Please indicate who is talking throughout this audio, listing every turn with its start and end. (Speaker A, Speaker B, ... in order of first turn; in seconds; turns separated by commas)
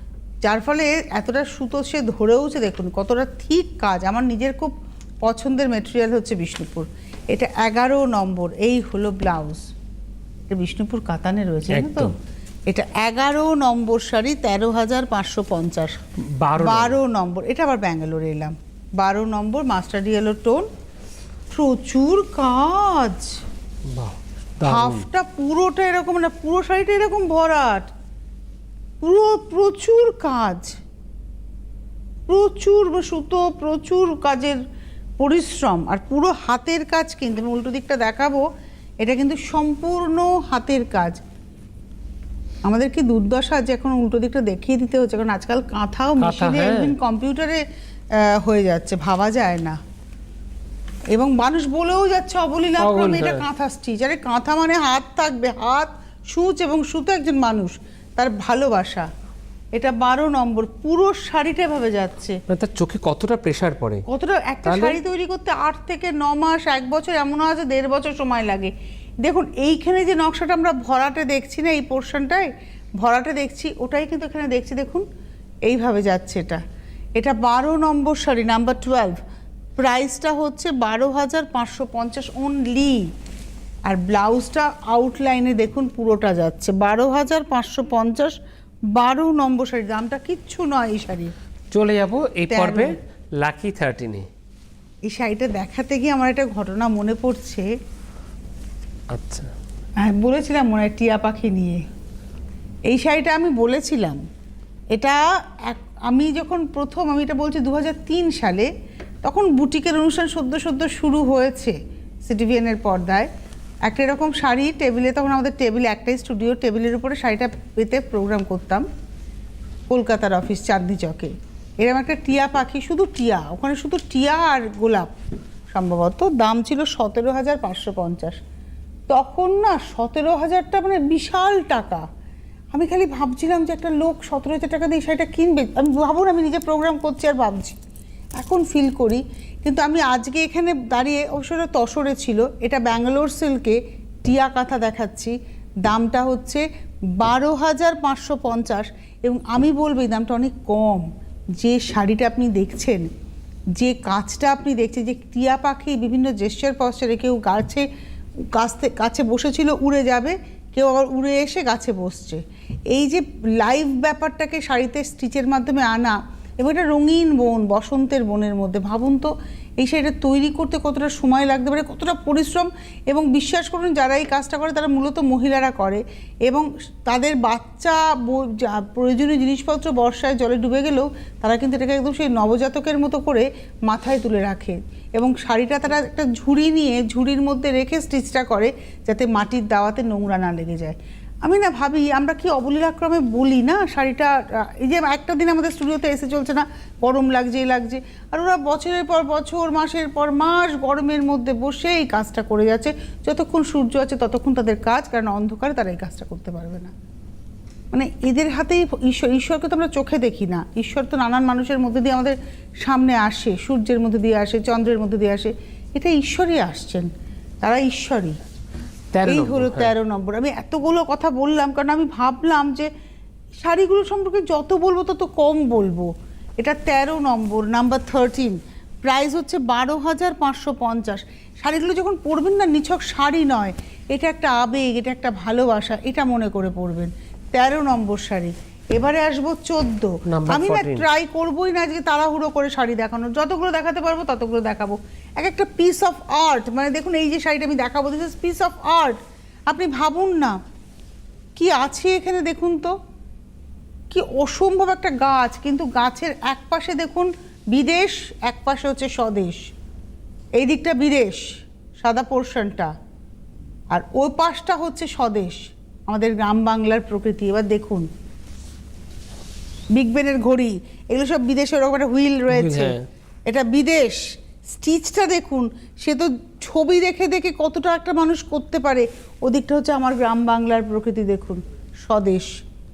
Speaker A: 0.4-9.7, Speaker A: 10.5-12.1, Speaker B: 11.7-12.2, Speaker A: 12.7-16.0, Speaker B: 16.2-17.0, Speaker A: 16.6-20.7, Speaker A: 21.5-23.4, Speaker B: 23.9-25.1, Speaker A: 24.6-27.9, Speaker A: 29.0-30.8, Speaker A: 32.3-34.6, Speaker A: 35.2-38.5, Speaker A: 39.0-41.2, Speaker A: 42.6-47.6, Speaker B: 46.2-46.9, Speaker A: 48.1-49.8, Speaker A: 51.1-59.1, Speaker B: 52.8-53.5, Speaker A: 59.7-62.4, Speaker B: 62.5-64.0, Speaker A: 64.1-68.7, Speaker B: 64.6-65.0, Speaker A: 69.2-75.0, Speaker A: 75.6-76.6, Speaker A: 77.2-79.2, Speaker A: 79.8-83.1, Speaker A: 83.9-88.3, Speaker A: 88.9-91.3, Speaker B: 91.7-94.3, Speaker A: 92.5-92.9, Speaker A: 95.0-97.7, Speaker B: 99.1-99.5, Speaker A: 100.0-101.8, Speaker A: 102.9-104.2, Speaker A: 104.9-108.7, Speaker A: 109.2-113.3, Speaker A: 113.8-118.8, Speaker A: 119.9-125.1, Speaker A: 125.7-128.4, Speaker A: 129.1-132.1, Speaker A: 132.7-137.7, Speaker A: 138.4-146.6, Speaker A: 147.2-153.1, Speaker A: 153.8-157.8, Speaker A: 158.5-162.4, Speaker A: 162.9-206.9, Speaker A: 207.9-217.1, Speaker A: 217.6-218.4, Speaker B: 219.1-219.9, Speaker A: 219.2-222.9, Speaker A: 223.5-249.2, Speaker B: 240.3-241.1, Speaker A: 249.7-250.6, Speaker A: 251.6-252.9, Speaker A: 254.1-259.7, Speaker A: 260.6-262.9, Speaker A: 263.9-268.1, Speaker A: 269.9-272.9, Speaker B: 272.5-273.1, Speaker A: 273.5-282.6